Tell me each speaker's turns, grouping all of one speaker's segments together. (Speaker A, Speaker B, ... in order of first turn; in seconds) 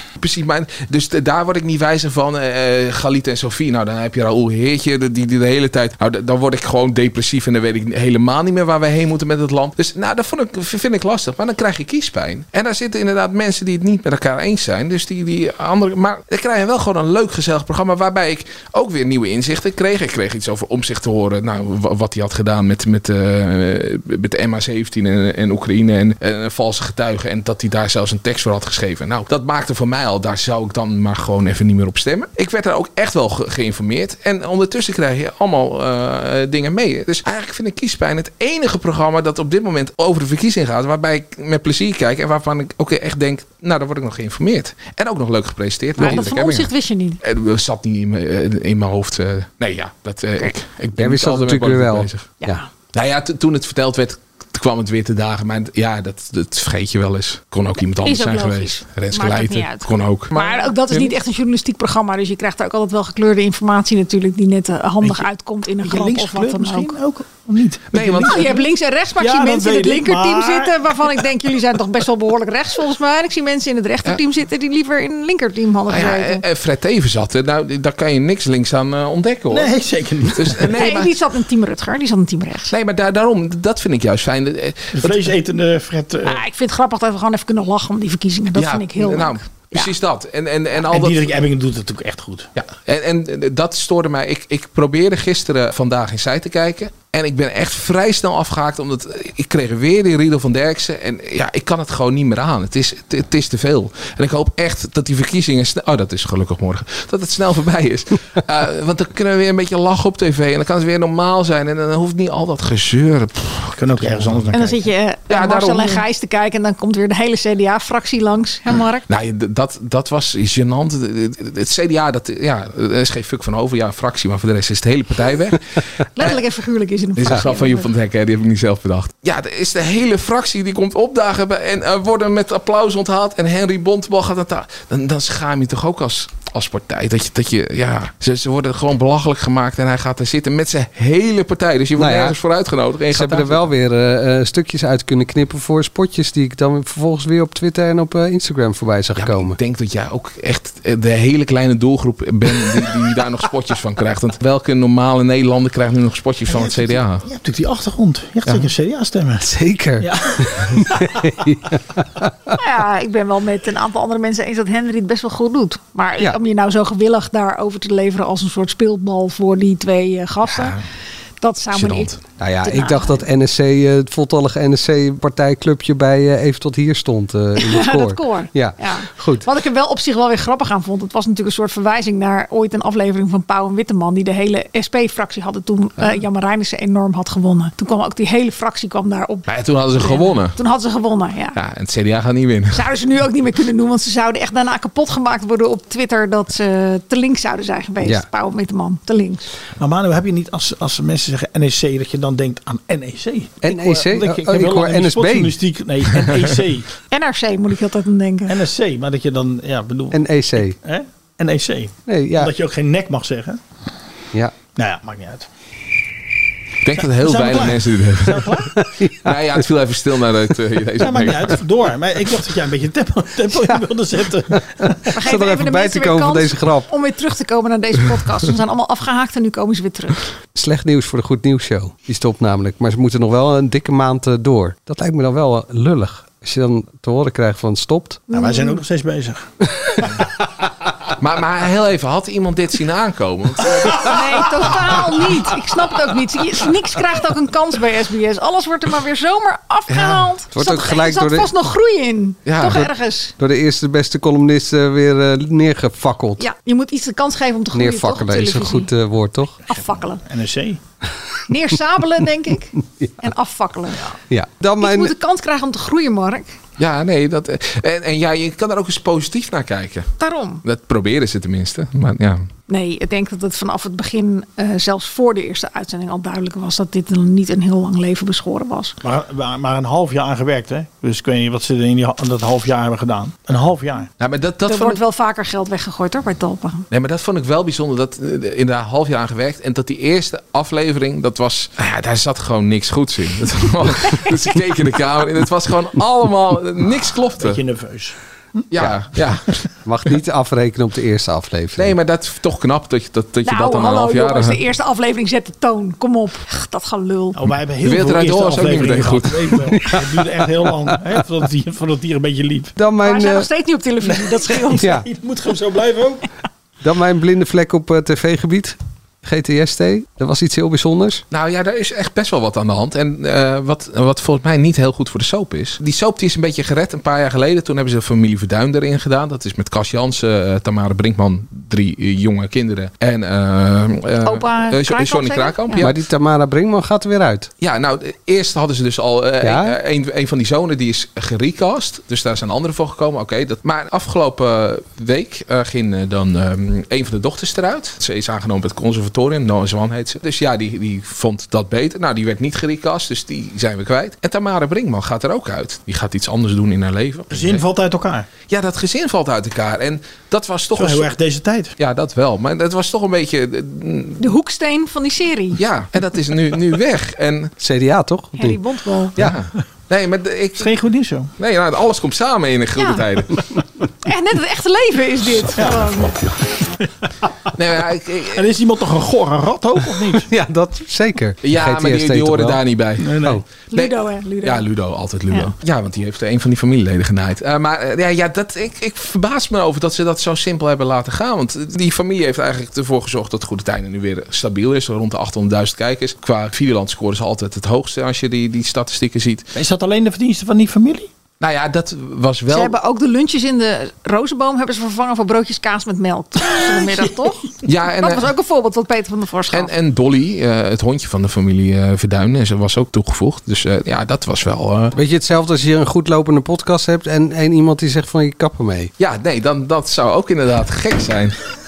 Speaker A: 0.2-46.7, 47.2-52.3, 52.9-61.1, 67.9-68.5, 75.9-79.7, 80.3-81.2, 82.7-85.3, 88.5-91.3, 92.6-114.5, 115.3-116.0, 119.1-126.4, 127.2-143.7, 149.2-157.2, 170.5-170.8, 171.7-172.2, 189.5-190.6, 191.6-192.8, 216.8-218.6, 219.2-221.6, 241.2-244.2, 249.9-250.2, 252.5-252.9, 266.8-270.1, 270.6-272.5, 284.2-285.0, 286.9-297.6, 298.7-299.6, 301.8-304.6, 307.8-309.6, 321.3-336.0, 337.6-357.6, 358.5-361.1, 361.8-364.2, 365.6-367.5, 369.2-370.7, 371.4-373.4, 377.6-378.4, 381.4-399.5, 401.4-402.8, 407.6-408.3, 409.5-415.0, 419.0-421.4
Speaker B: 46.0-47.2, 52.4-52.7, 58.0-67.0, 68.2-76.4, 80.7-82.7, 86.2-89.9, 114.5-119.1, 126.2-127.9, 162.6-170.8, 171.4-172.1, 172.6-173.2, 177.6-191.6, 192.7-199.5, 207.1-208.6, 225.1-230.2, 238.3-238.8, 244.0-253.3, 256.4-258.9, 259.7-260.2, 261.5-264.1, 264.8-266.5, 270.2-270.6, 272.7-279.0, 284.6-286.9, 303.5-307.4, 313.0-314.9, 334.2-335.9, 364.2-365.6, 368.4-369.1, 372.8-373.1, 374.0-376.2, 383.7-384.7, 402.5-407.5, 408.0-409.7
Speaker C: 51.0-52.6, 142.0-142.4, 143.1-149.6, 159.4-162.5, 172.4-179.5, 203.6-205.6, 210.1-210.8, 212.1-212.5, 218.8-219.3, 224.5-226.9, 230.6-238.3, 250.5-251.5, 253.4-256.4, 257.7-259.6, 264.3-265.1, 299.9-302.0, 309.7-310.3, 312.8-313.5, 314.8-315.1, 316.8-321.2, 335.8-337.5, 339.4-339.8, 367.6-368.6, 380.2-382.6, 414.9-418.9
Speaker D: 65.0-65.3, 65.8-71.1, 79.5-80.8, 84.9-86.4, 90.8-92.5, 113.7-114.9, 156.5-159.5, 160.0-161.1, 199.8-206.9, 208.5-213.6, 214.8-215.5, 217.1-218.8, 221.0-225.1, 238.3-239.4, 260.2-260.8, 279.0-284.1, 297.4-298.1, 307.4-312.7, 314.1-316.3, 357.3-358.3, 360.7-361.8, 370.6-371.3, 375.6-375.9, 378.3-380.3, 383.0-383.4, 399.5-401.1